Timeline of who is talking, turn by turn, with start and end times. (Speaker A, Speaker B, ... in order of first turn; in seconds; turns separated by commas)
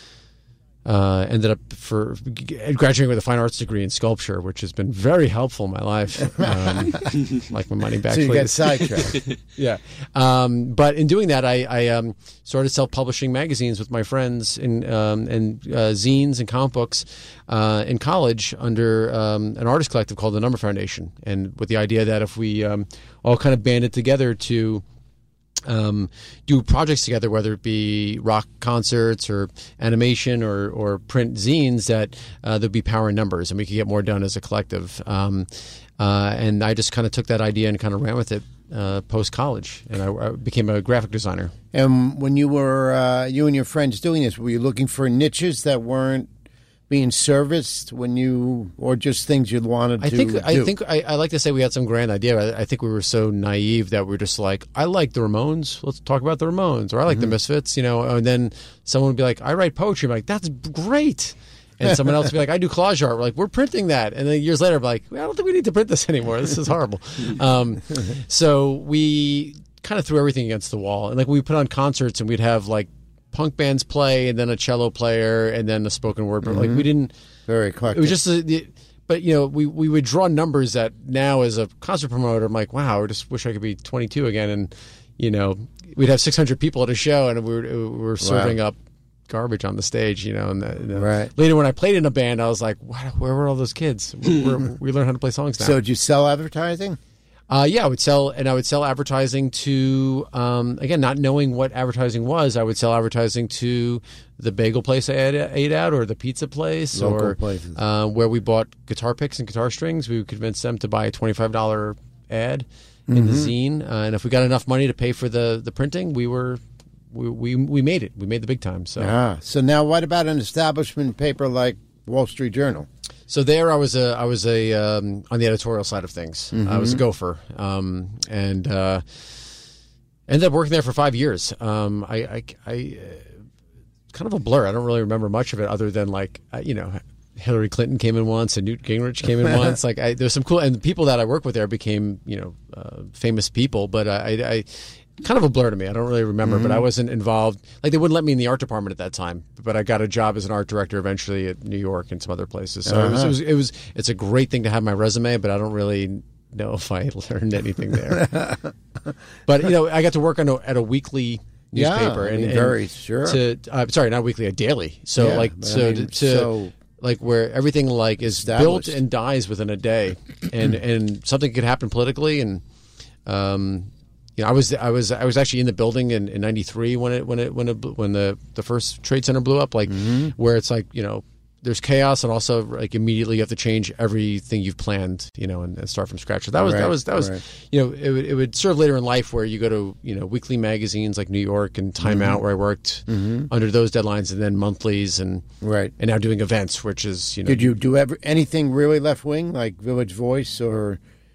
Speaker A: 0.8-24.8, Speaker B: 6.4-6.9, Speaker B: 8.1-9.2, Speaker A: 25.6-41.5, Speaker B: 41.7-46.3, Speaker B: 46.9-50.7, Speaker A: 50.0-77.1, Speaker B: 76.5-76.9, Speaker B: 77.5-78.2, Speaker A: 77.9-88.8, Speaker B: 88.2-88.5, Speaker A: 89.3-95.8, Speaker B: 91.0-91.3, Speaker B: 95.6-97.0, Speaker A: 97.5-119.2, Speaker B: 107.0-107.8, Speaker B: 113.1-113.5, Speaker B: 119.0-122.9, Speaker A: 123.3-129.3, Speaker B: 126.5-127.0, Speaker A: 130.3-133.3, Speaker A: 134.1-158.5, Speaker B: 146.4-146.8, Speaker B: 152.9-153.3, Speaker B: 158.3-158.7, Speaker A: 159.5-172.6, Speaker B: 161.8-163.4, Speaker B: 165.2-166.7, Speaker B: 168.4-168.9, Speaker A: 173.3-195.4, Speaker B: 179.9-180.3, Speaker B: 186.6-187.4, Speaker B: 192.0-192.4, Speaker B: 193.1-193.5, Speaker B: 195.6-195.9, Speaker A: 196.0-197.7, Speaker B: 197.5-201.0